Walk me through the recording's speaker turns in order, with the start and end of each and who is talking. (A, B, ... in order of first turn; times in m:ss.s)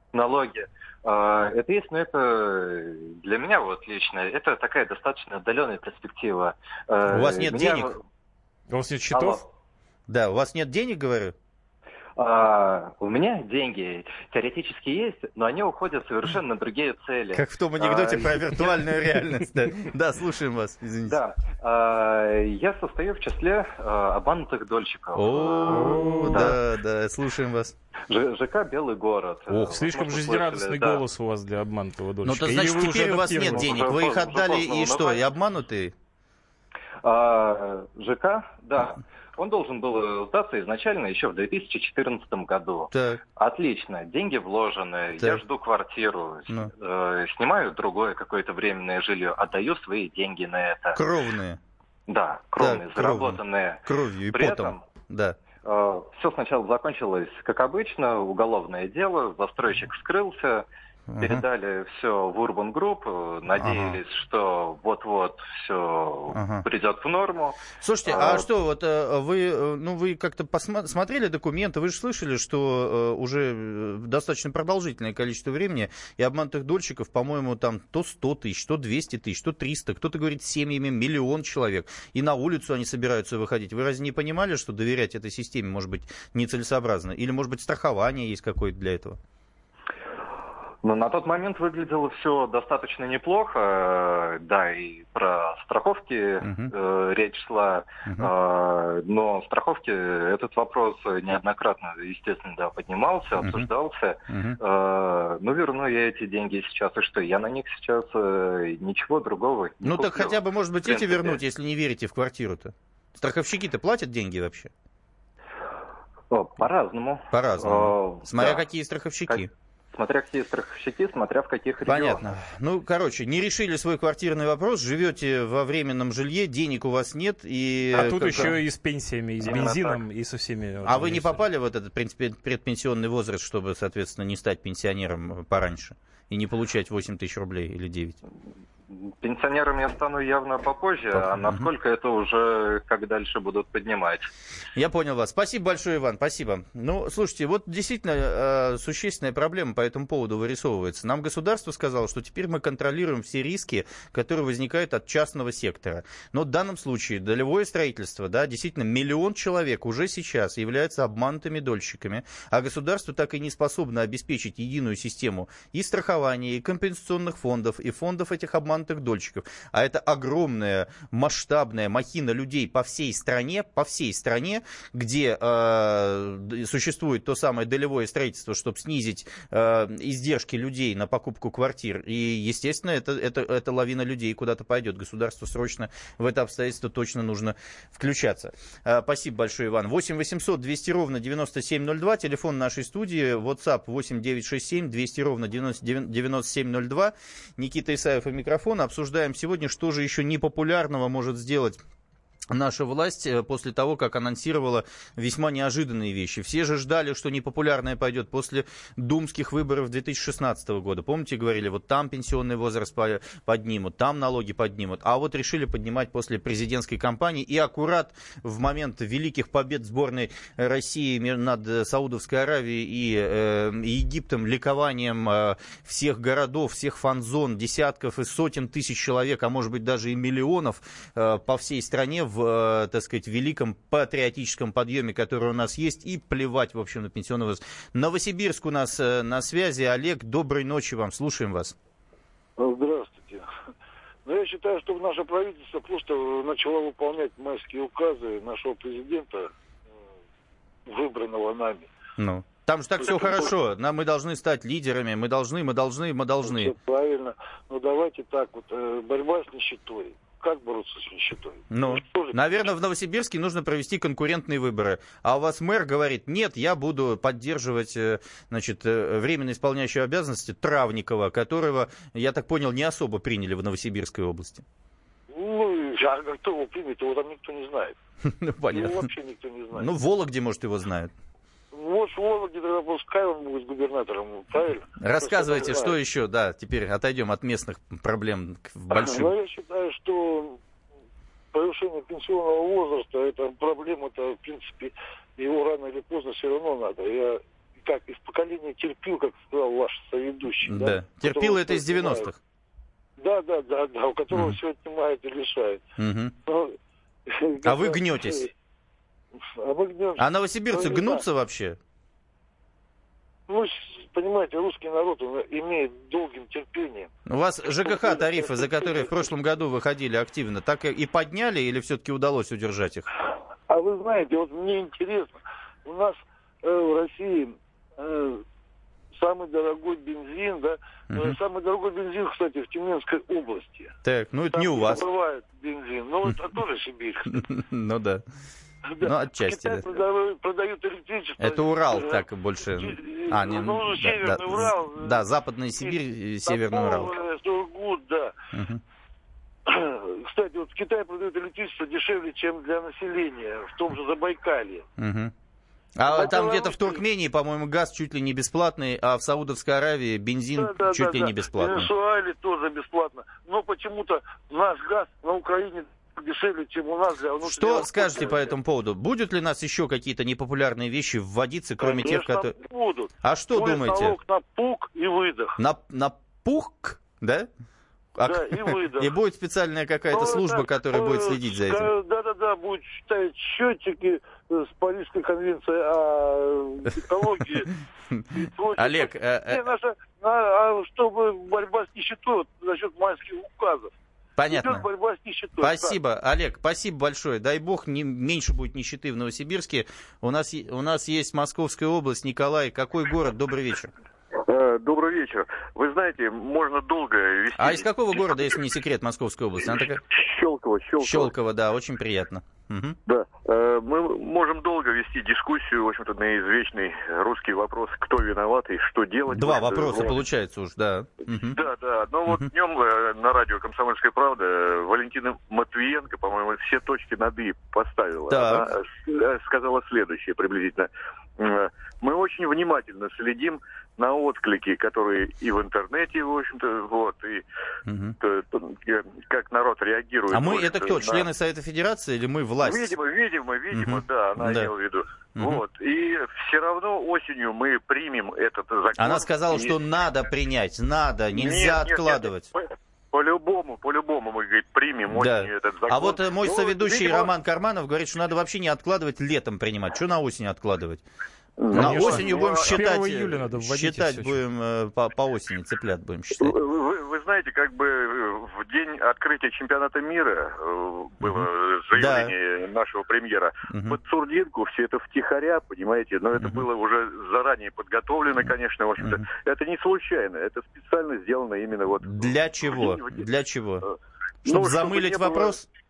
0:00.1-0:08.0 A
0:07.1-0:08.0 B
0:08.7-0:09.4 C
0:09.1-0:09.4 A
0:10.1-0:11.3 B
0:12.2-0:18.7 A
0:17.3-0:21.2 B
0:21.0-0:26.6 A
0:25.1-0:27.8 B
0:25.7-0:26.6 C
0:28.1-0:31.0 A
0:29.5-0:33.7 C
0:32.2-0:35.9 B
0:33.4-0:35.2 A
0:37.0-0:51.0 A
0:42.9-0:43.2 B
0:45.2-0:45.4 B
0:50.9-0:51.6 B
0:52.1-0:54.8 A
0:52.6-0:55.4 B
0:55.6-1:00.6 A
1:01.1-1:01.4 B
1:01.2-1:08.5 A
1:03.5-1:04.0 B
1:06.3-1:06.6 B
1:07.8-1:29.2 B
1:30.8-1:51.4 A
1:36.4-1:36.7 B
1:38.0-1:38.3 B
1:43.4-1:43.7 B
1:44.3-1:44.6 B
1:49.8-1:54.7 B
1:56.3-1:58.6 A
1:57.3-1:59.5 B
1:59.3-2:02.3 A
2:01.8-2:08.6 B
2:07.9-2:11.4 C
2:09.4-2:10.0 A
2:10.8-2:18.2 B
2:18.9-2:24.3 A
2:21.2-2:21.7 B
2:24.7-3:21.8 B
3:22.5-4:01.8 B
4:02.6-4:03.4 D
4:04.2-4:09.5 D
4:10.9-4:11.9 D
4:12.2-4:16.7 B
4:13.0-4:13.5 D
4:16.4-4:22.4 D
4:21.7-4:34.6 B
4:35.3-4:38.0 D
4:38.2-4:39.0 B
4:38.7-4:39.9 D
4:39.7-4:41.1 B
4:41.7-4:45.9 D
4:45.0-4:49.3 B
4:48.9-4:50.6 D
4:51.5-5:02.3 D
5:00.6-5:02.4 B
5:03.2-5:05.8 D
5:06.0-5:06.3 B
5:06.5-5:06.7 D
5:07.3-5:08.5 D
5:07.6-5:08.5 B
5:09.6-5:11.2 D
5:10.2-5:11.8 B
5:13.5-5:17.1 D
5:17.3-5:23.1 B
5:17.8-5:19.2 D
5:23.7-5:28.4 D
5:29.1-5:33.9 D
5:34.0-5:35.0 B
5:34.5-5:37.4 D
5:37.3-5:38.2 B
5:38.9-5:45.2 D
5:39.0-5:39.8 B
5:41.4-5:47.1 B
5:45.8-5:48.3 D
5:48.5-5:48.8 B
5:49.7-5:54.8 D
5:55.0-5:55.3 B
5:56.0-6:01.9 B
5:56.0-5:57.0 D
6:00.6-6:08.5 D
6:07.4-6:12.6 B
6:11.8-6:15.6 D
6:13.2-6:14.2 B
6:15.6-6:17.5 B
6:18.2-6:21.9 B
6:18.2-6:19.1 D
6:20.1-6:27.7 D
6:28.1-6:29.6 B
6:28.3-6:33.9 D
6:34.4-6:34.8 B
6:34.5-6:36.0 D
6:35.6-6:43.9 B
6:44.4-6:48.6 E
6:47.6-6:50.0 B
6:49.8-6:51.3 E
6:51.0-6:53.0 B
6:53.1-7:00.2 E
6:59.3-7:01.6 B
7:01.4-7:17.4 E
7:08.3-7:08.6 B
7:17.8-7:18.1 B
7:18.2-7:21.3 E
7:20.3-7:22.9 B
7:22.6-7:29.8 E
7:23.7-7:24.7 B
7:25.4-7:25.6 B
7:29.0-7:32.5 B
7:31.3-7:37.3 E
7:35.1-7:41.0 B
7:41.6-7:42.8 E
7:41.7-7:44.4 C
7:41.7-7:46.5 B
7:46.4-8:03.2 E
7:51.2-7:52.3 B
7:53.7-7:54.0 B
7:56.4-7:56.6 B
8:02.0-8:03.8 B
8:04.4-8:05.6 B
8:04.4-8:05.6 E